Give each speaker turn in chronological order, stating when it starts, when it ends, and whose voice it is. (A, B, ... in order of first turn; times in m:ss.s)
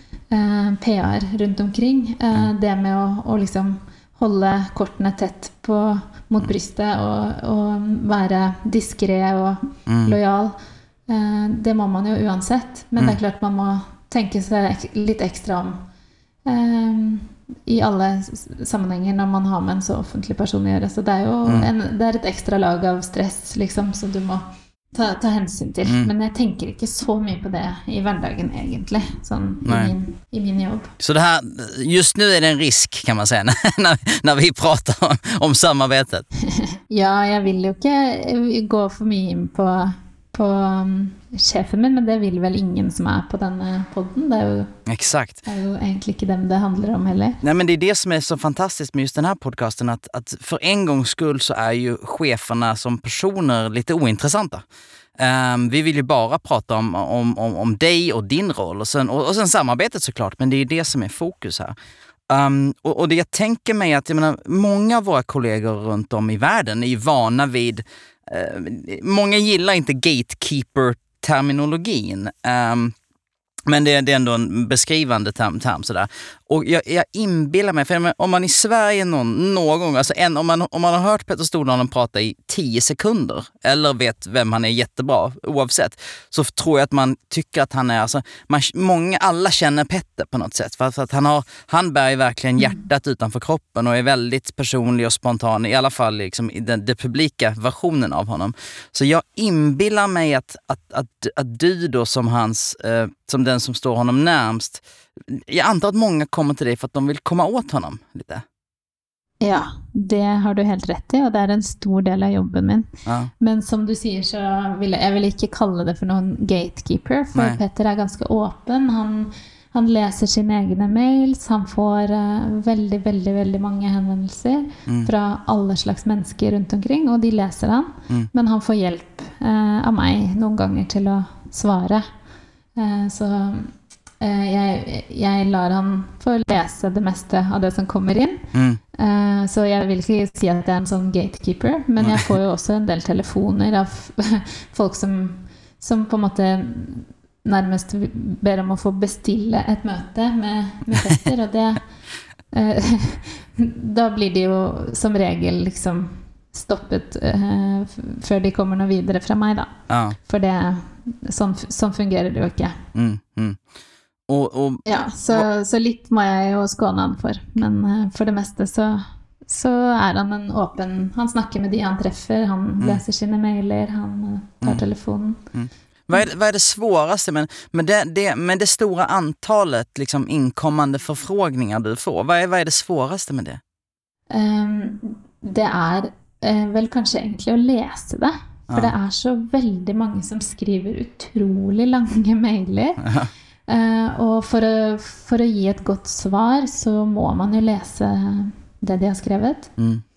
0:00.3-0:10.5 A
0:09.9-0:10.2 B
0:11.1-0:15.8 A
0:16.4-0:30.9 A
0:29.6-0:29.9 B
0:31.0-0:36.3 B
0:36.5-0:44.7 A
0:44.9-0:45.4 B
0:45.4-0:47.4 A
0:47.4-0:54.6 B
0:55.2-1:01.7 B
1:02.3-1:12.9 B
1:13.7-1:48.4 B
1:49.4-1:52.9 A
1:53.4-2:12.0 A
2:12.8-2:31.8 A
2:18.5-2:18.8 B
2:32.5-2:39.7 A
2:39.9-2:40.2 B
2:40.2-2:42.8 A
2:42.9-2:43.6 B
2:44.3-2:45.4 B
2:44.8-2:55.4 A
2:55.5-3:03.6 B
3:04.3-3:13.1 A
3:13.0-3:13.3 B
3:13.7-3:19.7 A